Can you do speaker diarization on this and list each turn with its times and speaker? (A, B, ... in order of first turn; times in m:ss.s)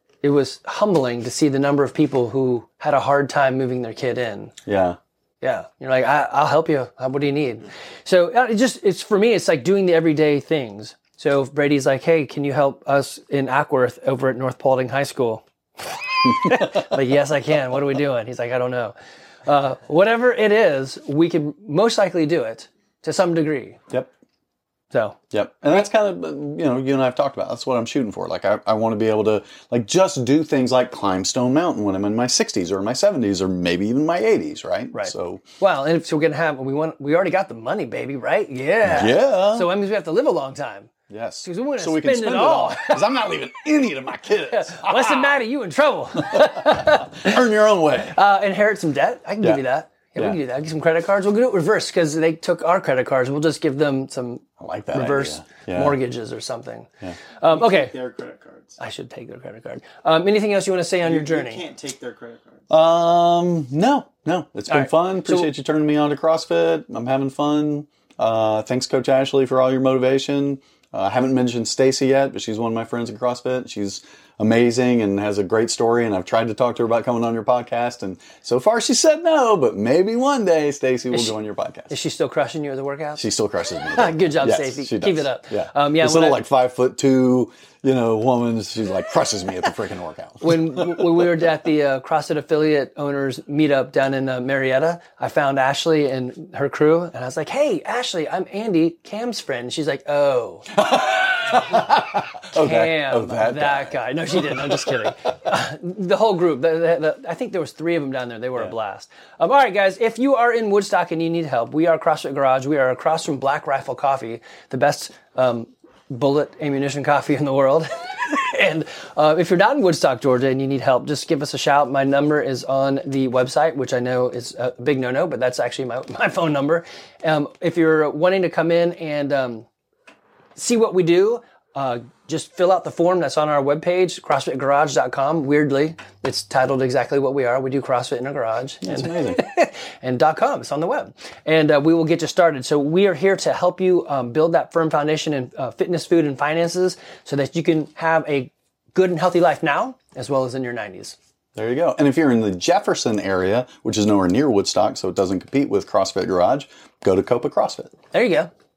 0:00.2-0:04.5 A
0:04.7-0:05.0 B
0:05.4-0:18.9 A
0:19.4-0:23.8 A
0:24.9-0:25.2 A
0:25.3-0:35.4 B
0:34.9-0:40.9 A
0:38.8-0:39.7 B
0:41.1-0:45.4 B
0:41.4-0:43.0 A
0:44.5-0:47.6 A
0:46.2-0:48.2 B
0:48.1-0:58.0 A
0:54.6-0:56.0 B
0:57.5-0:58.8 C
0:58.8-1:01.6 A
1:01.0-1:02.7 C
1:02.7-1:21.9 B
1:04.7-1:05.5 A
1:21.1-1:21.4 A
1:21.9-1:23.2 A
1:23.2-1:31.3 B
1:23.9-1:26.4 A
1:30.4-1:40.8 A
1:40.7-1:45.1 B
1:41.7-1:42.0 A
1:42.5-2:09.7 A
2:10.6-2:31.2 A
2:18.8-2:19.4 B
2:31.6-2:37.9 B
2:38.1-2:38.5 A